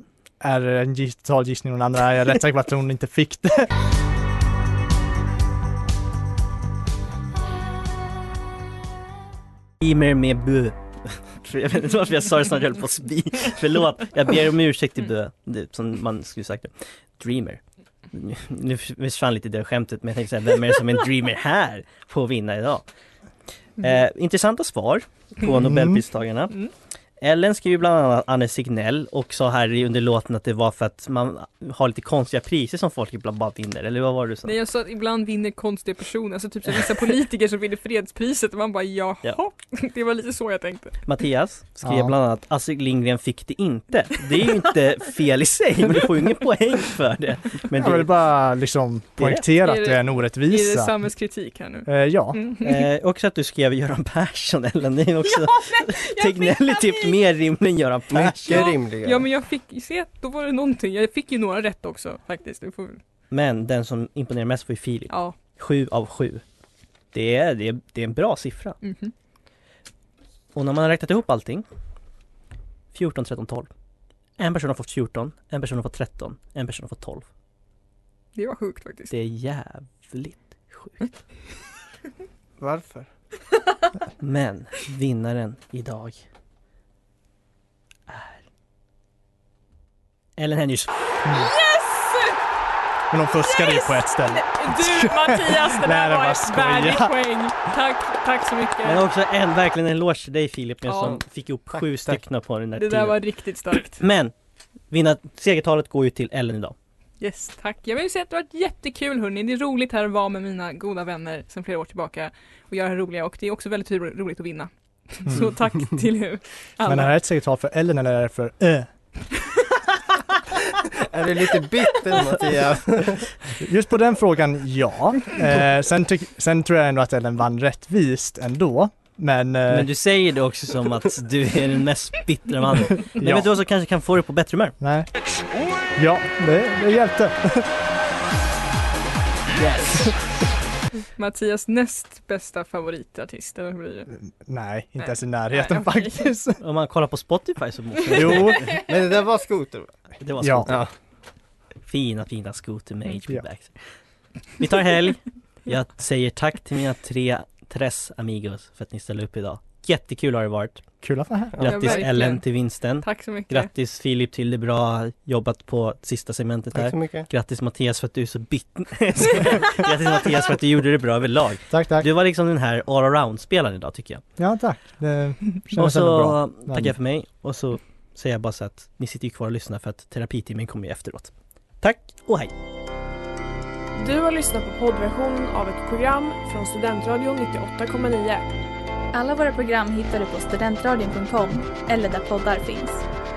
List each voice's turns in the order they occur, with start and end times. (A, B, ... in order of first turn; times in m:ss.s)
0:00.4-0:03.7 A
0:09.8-0:17.6 B
0:18.1-0:22.8 B
0:23.8-0:26.6 B
0:25.5-0:26.0 A
0:27.2-0:34.6 B
0:34.4-0:41.0 C
0:41.1-0:48.1 B
0:41.8-0:42.1 A
0:47.7-0:50.9 A
0:49.2-0:49.5 B
0:49.6-0:52.8 C
0:51.9-0:52.4 A
0:52.6-0:58.7 B
0:55.4-0:57.2 C
0:58.1-0:59.3 D
0:58.5-1:03.0 C
1:03.3-1:06.4 B
1:05.1-1:05.4 C
1:07.1-1:08.8 B
1:08.8-1:09.1 C
1:10.6-1:11.6 B
1:12.9-1:13.7 B
1:14.4-1:17.3 B
1:18.4-1:19.1 C
1:19.1-1:21.1 B
1:22.6-1:23.1 D
1:24.2-1:26.2 B
1:28.1-1:28.4 B
1:30.4-1:30.9 B
1:31.2-1:31.5 A
1:31.3-1:32.4 C
1:33.1-1:37.1 A
1:33.5-1:39.0 C
1:38.8-1:43.2 B
1:40.9-1:41.2 C
1:41.7-1:42.2 D
1:42.8-1:44.0 C
1:43.9-1:44.3 B
1:44.9-1:46.8 B
1:47.2-1:57.1 C
1:56.8-1:58.9 A
2:01.0-2:03.4 D
2:03.6-2:09.9 A
2:09.7-2:14.8 B
2:13.2-2:13.5 A
2:14.8-2:15.1 A
2:15.9-2:17.7 A
2:19.6-2:20.1 B
2:21.2-2:24.1 C
2:24.2-2:26.6 A
2:25.0-2:26.3 C
2:26.6-2:28.8 B
2:28.1-2:28.8 A
2:28.3-2:28.6 C
2:28.8-2:30.0 D
2:30.2-2:30.8 B
2:30.4-2:30.7 A
2:31.8-2:33.8 B
2:34.6-2:40.8 B
2:41.0-2:41.6 A
2:41.6-2:42.0 D
2:41.6-2:54.2 B
2:41.6-2:43.7 C
2:46.7-2:47.3 D
2:51.7-2:52.1 A
2:54.4-2:56.9 A
2:55.8-3:02.5 B
3:04.0-3:08.4 E
3:09.1-3:13.0 F